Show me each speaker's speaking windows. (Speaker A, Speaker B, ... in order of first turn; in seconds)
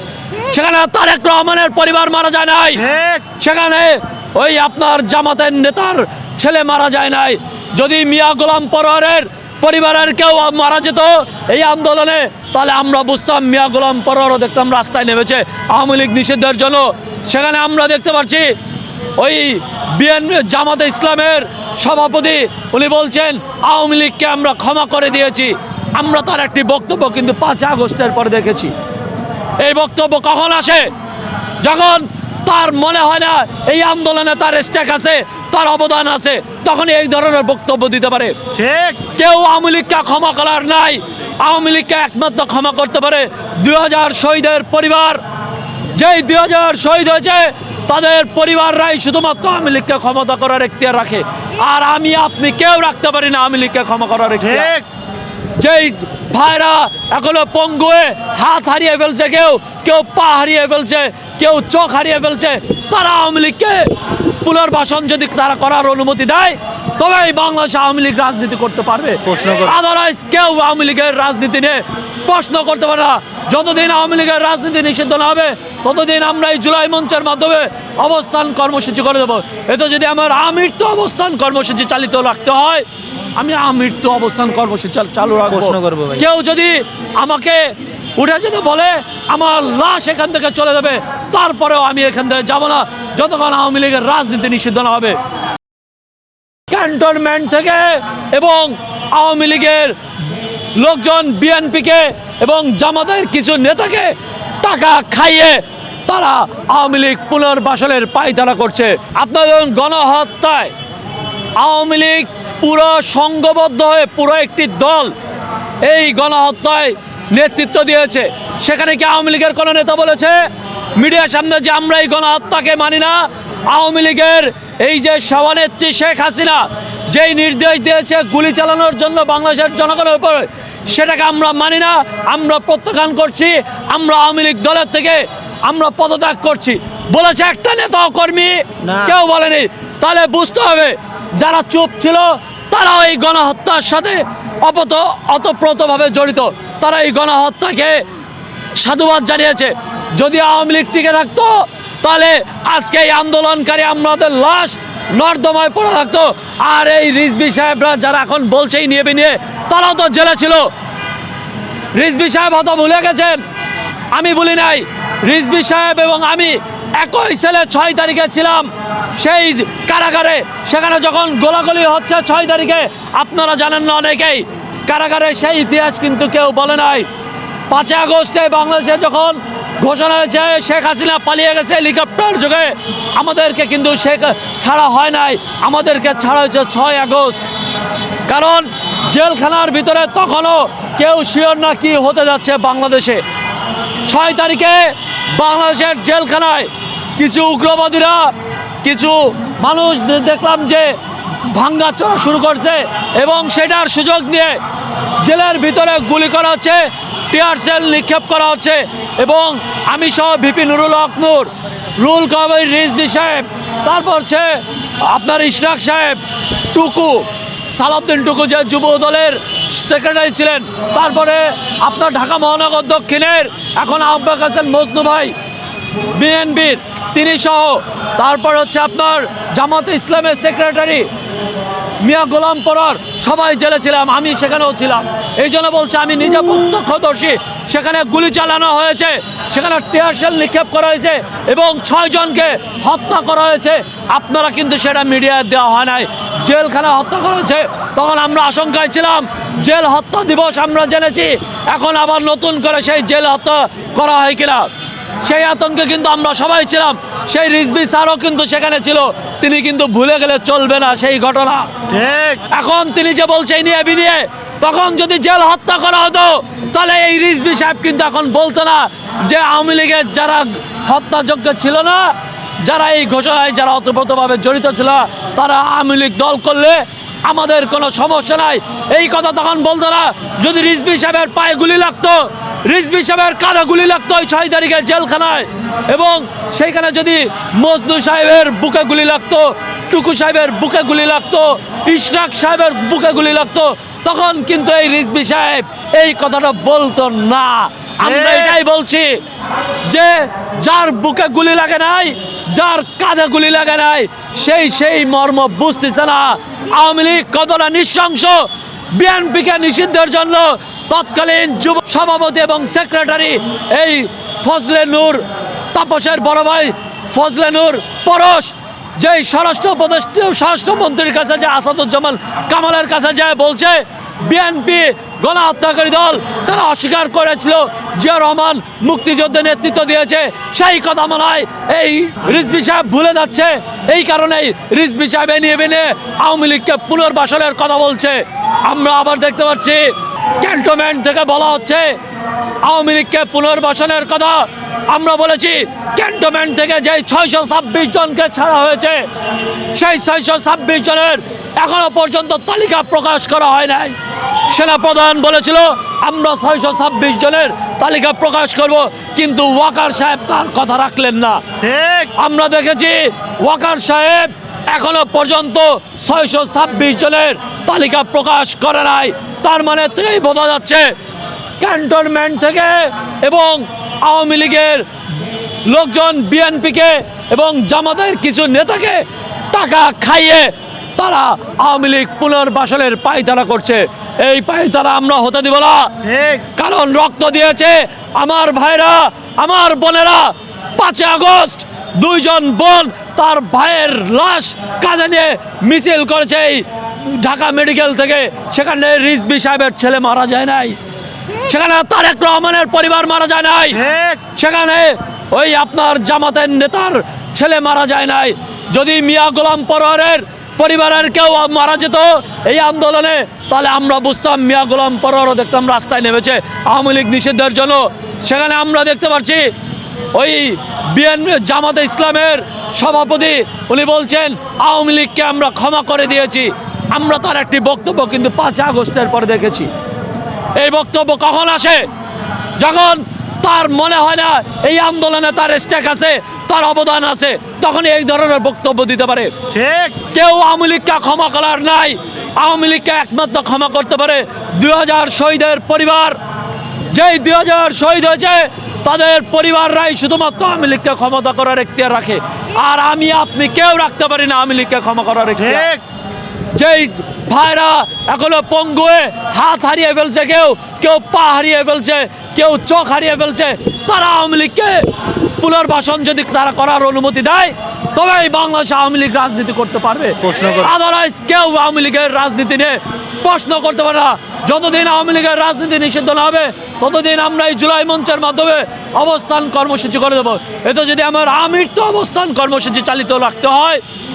Speaker A: 0.5-18.5, 19.2-28.7, 29.6-30.9, 31.6-38.4, 39.1-45.2, 46.0-54.8, 55.6-63.9, 64.4-82.8, 83.4-95.2, 96.7-100.0, 100.8-110.7, 111.6-115.1, 115.8-120.4, 121.0-148.0, 148.8-160.7, 161.9-163.4, 164.1-177.1, 177.7-187.5, 188.3-193.2, 194.1-204.6, 205.2-225.3, 226.1-231.1, 232.0-254.7, 255.2-261.7, 262.5-299.2, 299.8-342.0, 342.6-349.1, 349.7-354.0, 354.5-361.4, 362.2-370.9, 371.6-374.9, 375.7-385.9, 386.6-400.8, 401.4-419.5, 420.1-429.7, 430.6-431.9, 432.6-439.3, 440.1-446.2, 446.9-455.7, 456.5-464.9, 465.4-483.8
Speaker B: 2.8-3.2, 38.5-39.0, 54.5-54.8, 69.3-69.6, 85.5-86.2, 138.8-139.1, 261.9-262.4, 298.0-298.5, 361.6-362.1, 386.0-386.4, 403.8-404.2, 439.5-440.0, 455.5-455.8, 470.2-470.7